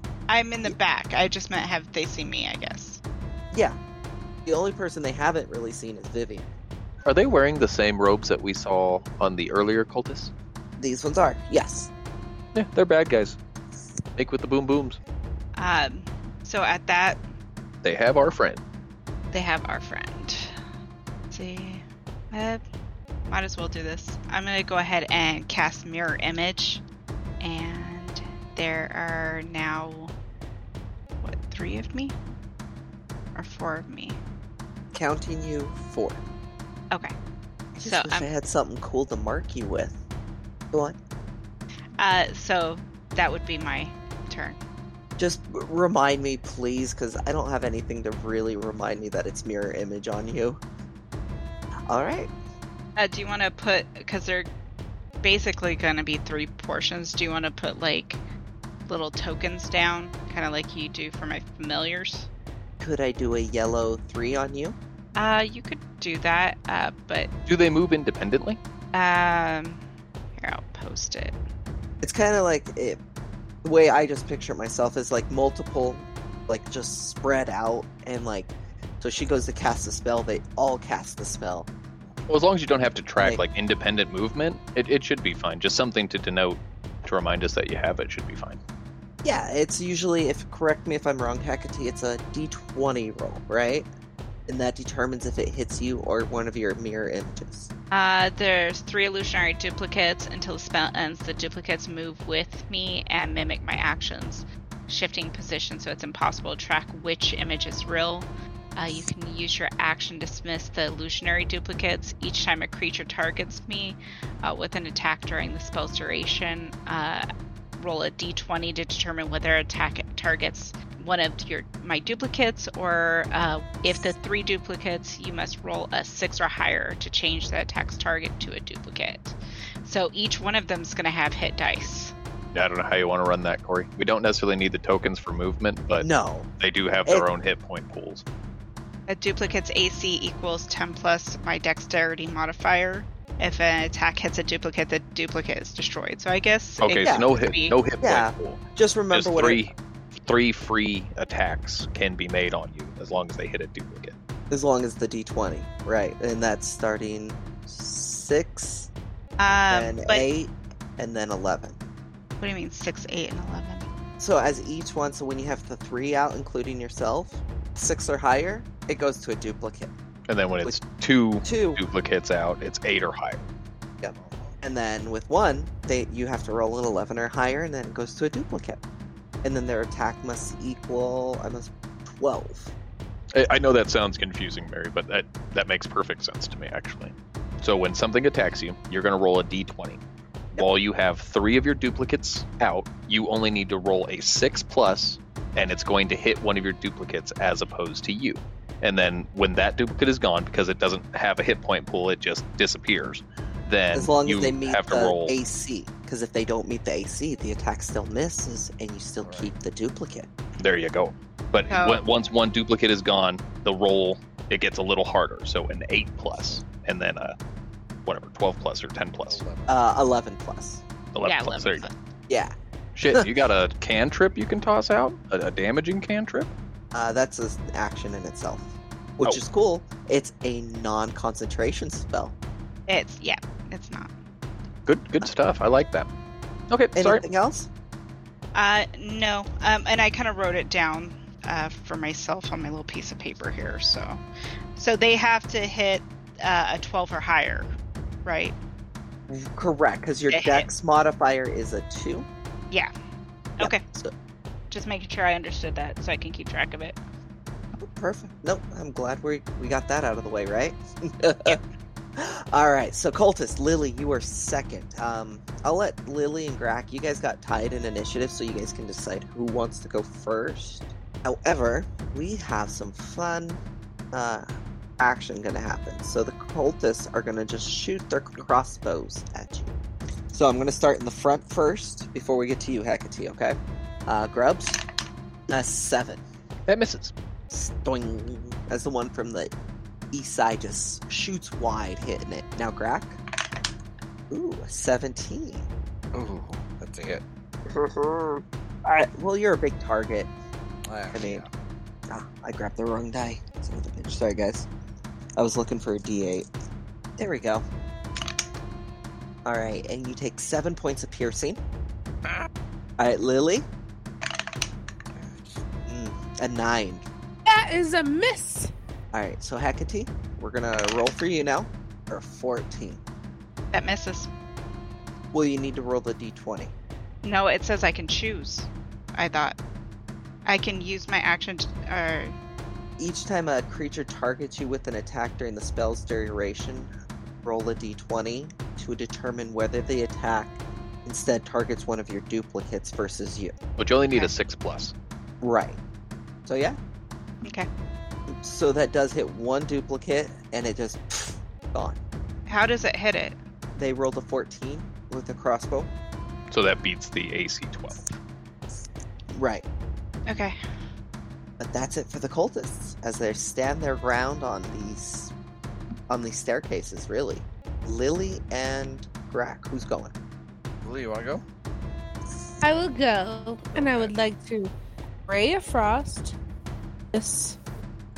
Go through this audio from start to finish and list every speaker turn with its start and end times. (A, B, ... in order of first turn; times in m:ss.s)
0:00.3-0:03.0 A
0:03.5-0:03.8 B
0:04.5-0:06.5 B
0:07.0-0:10.3 C
0:10.8-0:11.9 B
0:12.5-0:13.4 C
0:14.2-0:15.0 C
0:15.6-0:17.2 A
0:17.8-0:18.6 C
0:19.3-0:20.6 A
0:21.3-0:22.6 A
0:23.3-0:26.8 A
0:27.4-0:30.1 A
0:31.2-0:32.2 A
0:33.4-0:34.2 A
0:34.9-0:36.2 B
0:37.8-0:40.0 B
0:37.8-0:38.3 A
0:42.0-0:44.6 A
0:45.2-0:50.6 B
0:51.9-0:52.3 B
0:53.0-0:54.5 A
0:55.2-0:58.2 A
0:58.9-1:02.3 A
1:02.8-1:04.8 B
1:05.1-1:07.3 A
1:07.5-1:08.6 C
1:08.9-1:09.8 A
1:10.4-1:11.4 A
1:12.0-1:13.0 B
1:13.6-1:21.7 B
1:22.3-1:28.6 C
1:29.2-1:33.9 B
1:34.5-1:37.7 B
1:37.9-1:57.2 A
1:57.8-2:12.1 A
2:12.5-2:16.1 C
2:16.0-2:16.5 B
2:16.6-2:18.2 C
2:19.1-2:27.8 A
2:26.8-2:29.7 C
2:28.0-2:29.6 B
2:30.2-2:34.1 C
2:34.5-2:38.9 B
2:39.4-2:40.2 A
2:39.7-2:41.8 B
2:42.4-2:43.9 A
2:44.2-2:49.9 B
2:50.3-2:53.5 C
2:51.4-2:51.8 B
2:54.0-2:58.8 B
2:54.2-2:54.6 D
2:59.4-3:02.7 B
3:03.3-3:10.0 C
3:10.5-3:25.4 C
3:23.9-3:30.3 B
3:29.2-3:29.5 D
3:30.6-3:37.3 C
3:31.7-3:32.0 A
3:38.0-3:39.4 C
3:39.2-3:39.8 D
3:39.7-3:40.8 B
3:41.1-3:41.9 C
3:41.2-3:41.9 A
3:43.0-3:46.5 C
3:46.9-3:52.3 B
3:52.9-3:54.1 A
3:54.8-3:56.1 C
3:56.7-3:57.2 C
3:57.0-3:57.7 B
3:58.5-4:04.2 A
4:04.8-4:07.7 A
4:08.2-4:08.6 A
4:09.3-4:12.3 B
4:10.3-4:10.7 A
4:13.6-4:13.8 A
4:13.6-4:14.1 B
4:14.7-4:17.0 A
4:17.8-4:21.6 B
4:22.2-4:33.6 B
4:34.1-4:34.5 B
4:35.0-4:39.7 B
4:40.3-4:44.8 B
4:45.5-4:46.2 B
4:46.7-4:47.1 C
4:47.5-4:49.5 B
4:50.1-4:53.2 B
4:54.3-4:55.7 B
4:56.1-4:57.2 D
4:57.7-5:00.3 B
5:00.8-5:01.5 D
5:01.1-5:01.4 B
5:02.1-5:04.7 B
5:05.4-5:06.5 B
5:07.2-5:07.6 B
5:09.4-5:11.6 B
5:13.0-5:13.7 B
5:15.1-5:15.6 D
5:15.9-5:17.0 B
5:17.5-5:18.7 E
5:19.1-5:23.0 B
5:23.7-5:24.3 A
5:25.3-5:26.7 B
5:27.2-5:29.6 A
5:30.4-5:32.3 A
5:33.0-5:43.5 B
5:43.8-5:44.9 C
5:45.4-5:45.8 B
5:46.5-5:46.8 B
5:48.3-5:52.0 B
5:52.5-5:53.4 A
5:53.8-5:55.9 B
5:56.5-5:58.1 C
5:59.3-5:59.7 B
6:00.3-6:00.6 A
6:01.6-6:05.3 B
6:06.1-6:10.1 B
6:10.8-6:11.4 D
6:12.6-6:14.7 E
6:13.7-6:14.1 D
6:15.3-6:16.4 E
6:17.1-6:17.6 E